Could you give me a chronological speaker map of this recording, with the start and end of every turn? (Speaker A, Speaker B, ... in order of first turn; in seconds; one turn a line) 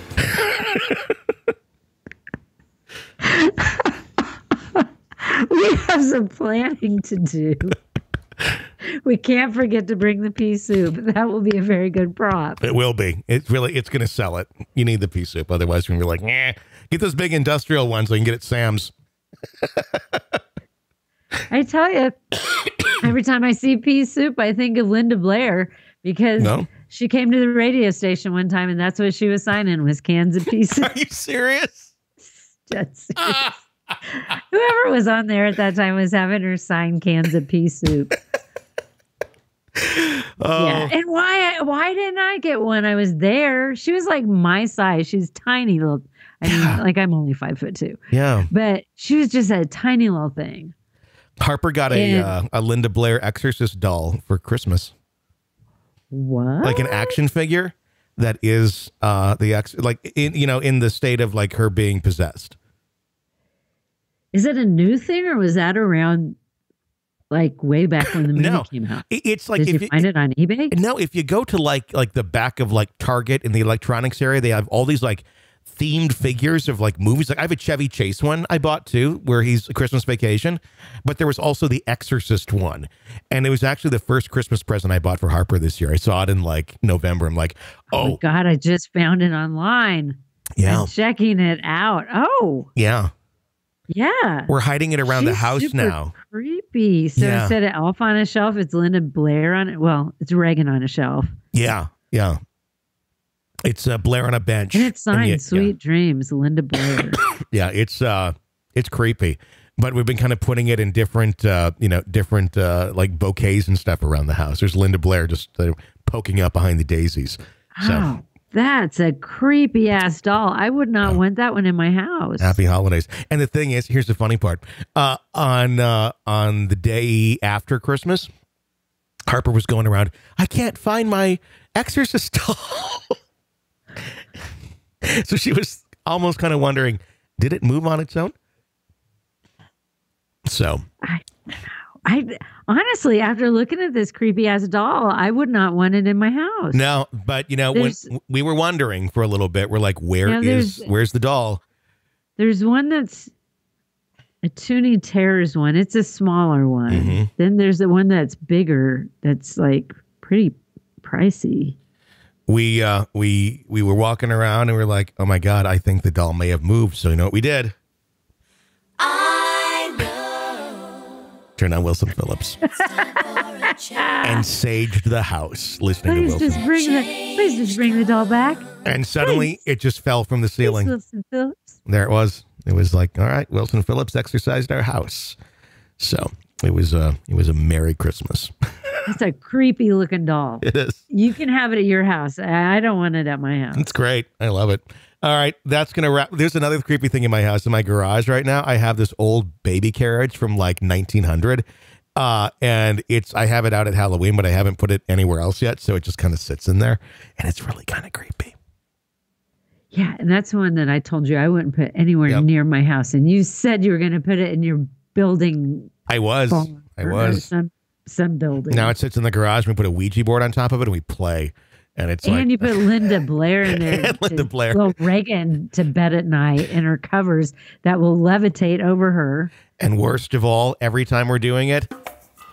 Speaker A: 0.2-1.1
Speaker B: 3.2-3.9
Speaker B: 4.7-7.8
Speaker B: 8.8-12.6
Speaker A: 12.6-18.9
Speaker A: 19.8-20.4
Speaker B: 21.5-22.2
Speaker B: 23.0-30.9
Speaker A: 26.4-26.7
Speaker A: 30.8-31.9
Speaker B: 32.3-33.6
Speaker A: 33.2-33.9
Speaker B: 34.1-38.1
Speaker A: 39.8-40.9
Speaker B: 40.5-50.7
Speaker A: 46.5-46.8
Speaker A: 48.1-48.5
Speaker A: 51.4-54.9
Speaker B: 51.9-52.3
Speaker B: 56.1-57.1
Speaker A: 56.6-62.5
Speaker B: 64.3-66.4
Speaker B: 67.3-69.0
Speaker A: 68.3-70.1
Speaker B: 69.6-70.7
Speaker A: 70.7-88.2
Speaker B: 87.9-92.7
Speaker A: 90.6-90.9
Speaker A: 92.8-93.1
Speaker B: 93.9-94.5
Speaker A: 94.5-96.1
Speaker B: 95.0-101.3
Speaker A: 97.2-97.5
Speaker A: 101.5-102.4
Speaker A: 103.6-105.7
Speaker B: 104.7-107.2
Speaker A: 107.3-118.1
Speaker B: 117.8-122.6
Speaker A: 122.4-128.3
Speaker A: 129.3-133.2
Speaker A: 135.0-138.3
Speaker A: 140.4-140.8
Speaker B: 141.0-146.8
Speaker A: 146.7-151.6
Speaker B: 147.7-148.1
Speaker B: 150.2-150.9
Speaker B: 152.4-153.3
Speaker B: 154.4-161.8
Speaker A: 156.9-157.3
Speaker A: 162.5-167.7
Speaker B: 169.5-169.9
Speaker A: 171.6-172.6
Speaker B: 172.7-174.4
Speaker A: 174.2-176.6
Speaker B: 176.1-178.7
Speaker A: 178.8-180.9
Speaker B: 179.2-179.5
Speaker B: 180.6-181.8
Speaker A: 181.9-185.4
Speaker A: 186.0-189.0
Speaker B: 189.1-193.9
Speaker A: 190.6-191.1
Speaker A: 193.8-201.6
Speaker A: 202.2-208.6
Speaker B: 209.9-215.9
Speaker A: 216.1-217.5
Speaker B: 216.5-218.9
Speaker A: 218.7-223.1
Speaker B: 222.2-229.5
Speaker A: 223.7-224.9
Speaker A: 229.8-231.9